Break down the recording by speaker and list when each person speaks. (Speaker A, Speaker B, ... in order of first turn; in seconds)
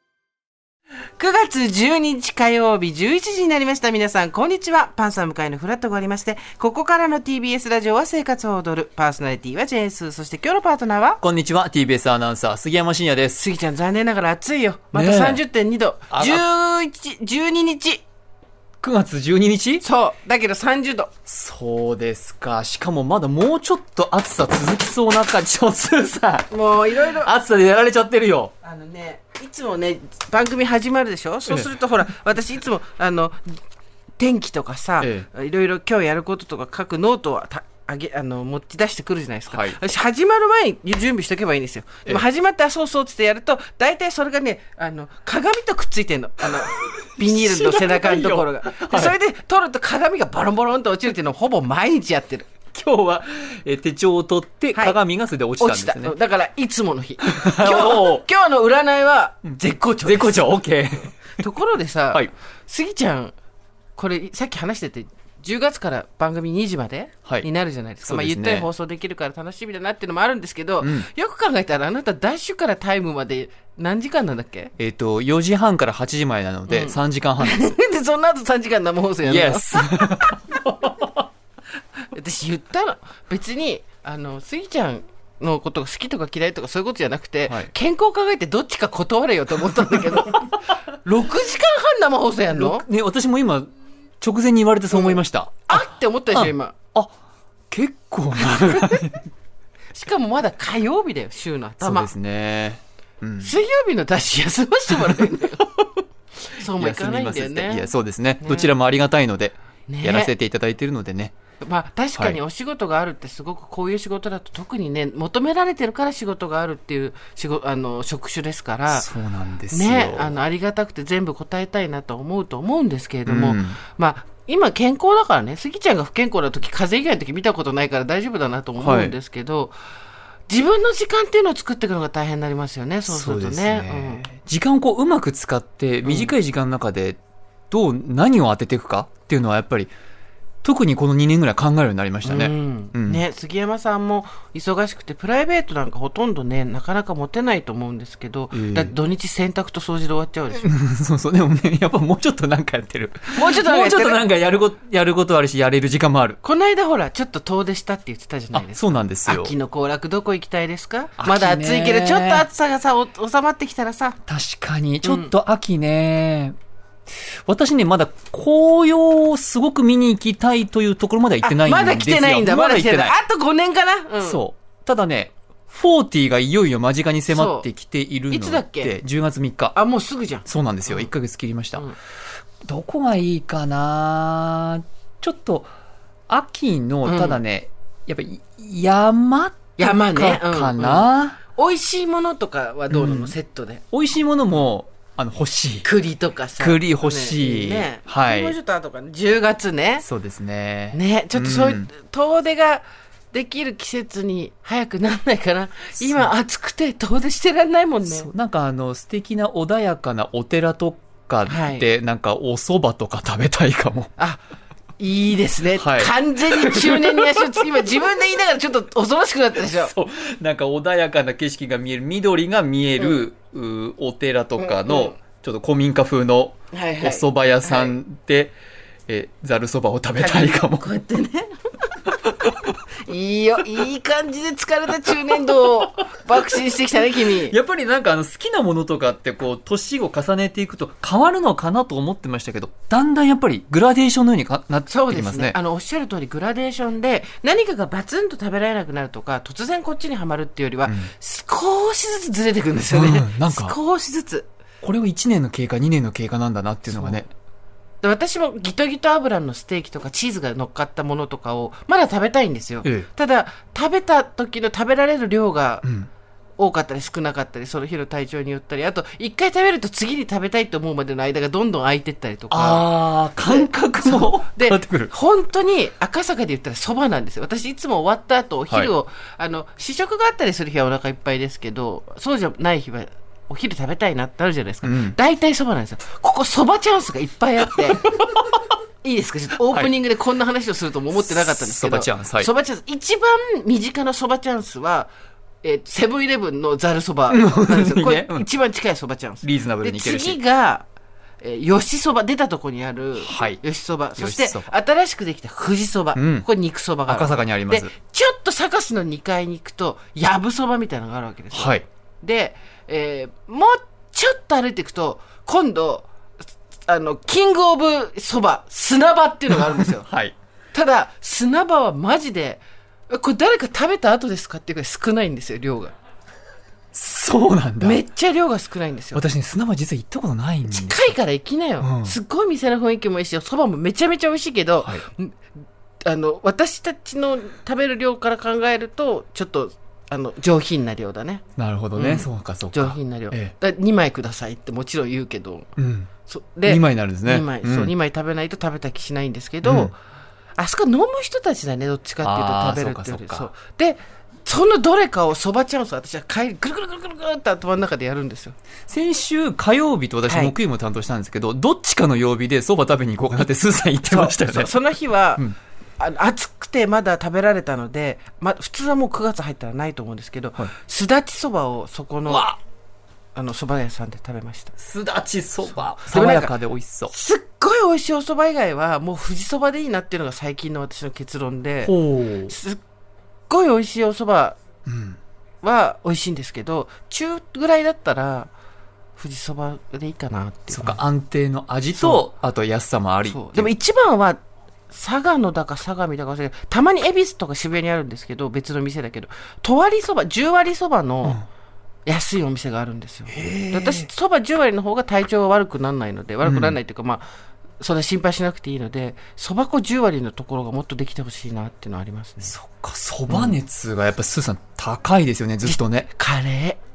Speaker A: 1.2-11.2, 13.3-18.0, 19.8-21.1, 26.5-27.3, 28.6-33.6, 34.2-52.5, 55.6-60.6, 61.4-63.4, 64.0-74.7, 76.7-80.4, 82.1-92.8, 94.9-96.7, 99.9-102.1, 103.4-105.7, 106.5-107.9, 108.4-108.7, 109.9-110.3, 111.6-119.1, 119.7-129.7, 130.5-134.2, 136.1-136.3, 142.2-150.7, 153.3-154.3, 156.4-164.2, 165.0-165.3, 171.4-174.4, 177.3-177.7, 178.3-179.0, 179.7-181.1, 187.1-187.4, 189.8-193.8, 195.8-200.1, 200.9-208.3, 211.5-211.9, 215.0-219.9, 224.6-225.2, 226.7-228.0, 230.2-237.6, 244.9-254.5, 256.9-257.3, 258.0-265.9, 266.6-288.2, 289.0-295.1, 295.6-300.9, 301.4-316.1, 316.9-320.1, 320.7-325.9, 327.8-329.2, 330.7-335.4, 336.0-341.4, 341.9-345.7, 346.3-350.0, 350.6-358.6, 360.3-360.5, 364.1-365.4, 366.0-372.5, 373.4-374.7, 376.0-376.5, 377.1-382.0, 382.5-382.8, 383.5-384.6, 385.6-388.5, 389.2-391.0, 391.9-392.2, 393.2-401.4, 402.1-407.2, 407.8-412.6, 413.3-413.6, 415.6-416.8
Speaker B: 11.2-13.4, 14.9-15.4, 16.1-16.4, 18.8-19.9, 21.3-26.5, 27.1-28.5, 31.5-31.7, 35.0-35.3, 39.5-39.8, 46.8-49.1, 52.7-56.1, 57.2-58.2, 60.0-61.2, 68.0-68.7, 70.8-71.1, 74.8-77.8, 79.2-81.1, 87.5-87.7, 92.5-93.7, 94.2-97.1, 97.7-99.3, 101.8-103.5, 105.0-105.3, 106.7-111.3, 118.9-120.4, 123.3-123.8, 128.8-129.2, 133.1-137.2, 137.7-139.9, 140.6-143.2, 148.5-148.9, 150.6-156.4, 158.5-159.5, 161.2-162.5, 164.3-166.6, 167.2-173.2, 174.2-179.8, 180.5-181.9, 182.7-185.7, 186.3-191.4, 192.9-193.3, 193.9-195.9, 196.6-198.6, 200.0-201.9, 206.0-206.3, 208.0-214.1, 215.8-217.6, 219.6-228.6, 229.1-230.9, 236.3-236.6, 237.2-245.6, 250.9-251.1, 252.9-253.8, 254.8-257.3, 265.8-266.1, 272.5-275.1, 284.8-285.2, 288.1-288.4, 291.2-292.5, 297.3-298.4, 299.4-300.4, 303.2-303.6, 304.2-304.7, 306.2-306.5, 307.1-307.9, 311.5-311.9, 319.5-320.4, 326.9-328.0, 329.1-331.1, 331.8-332.1, 341.6-343.5, 345.8-346.1, 346.6-347.9, 349.6-349.9, 352.2-353.5, 358.9-364.8, 372.3-372.6, 374.8-377.1, 381.9-382.5, 384.9-385.2, 390.7-393.7, 403.3-404.1, 406.4-406.8, 412.4-416.1